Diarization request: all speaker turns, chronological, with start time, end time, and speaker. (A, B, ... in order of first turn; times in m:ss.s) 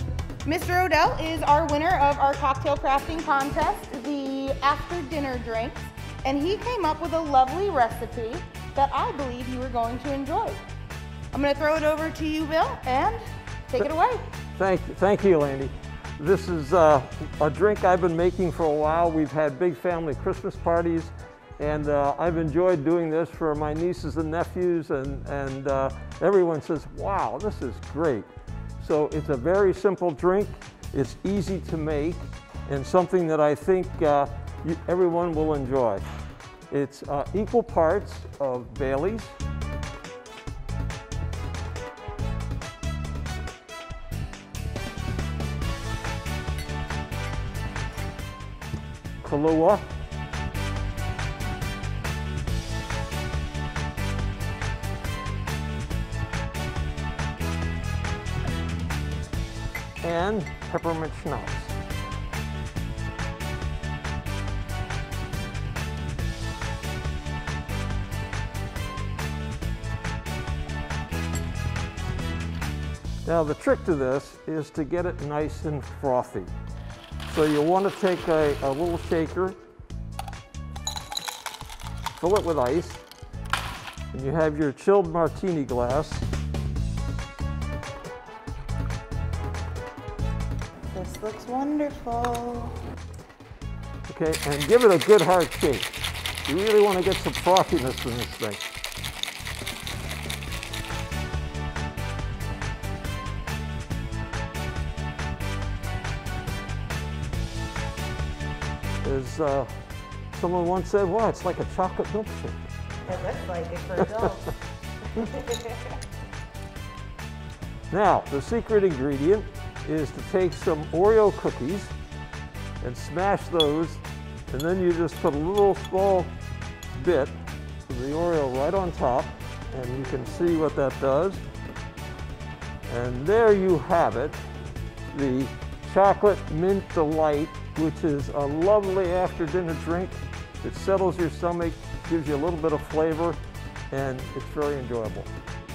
0:00.4-0:10.6 A
0:11.3-0:14.2 A
0:14.6-0:28.3 B
0:28.8-0:36.0 B
0:36.7-0:39.3 B
0:49.2-0:49.8 B
1:00.0-1:01.7 B
1:13.2-1:16.5 B
1:17.2-1:19.6 B
1:22.2-1:23.0 B
1:24.1-1:26.3 B
1:30.9-1:32.7 A
1:34.1-1:35.9 B
1:36.4-1:38.6 B
1:49.0-1:49.7 B
1:50.3-1:52.6 B
1:53.3-1:54.4 A
1:57.9-2:01.9 B
2:02.8-2:06.3 B
2:06.9-2:07.3 B
2:07.9-2:11.4 B
2:12.9-2:14.4 B
2:15.1-2:23.4 B
2:23.9-2:25.3 B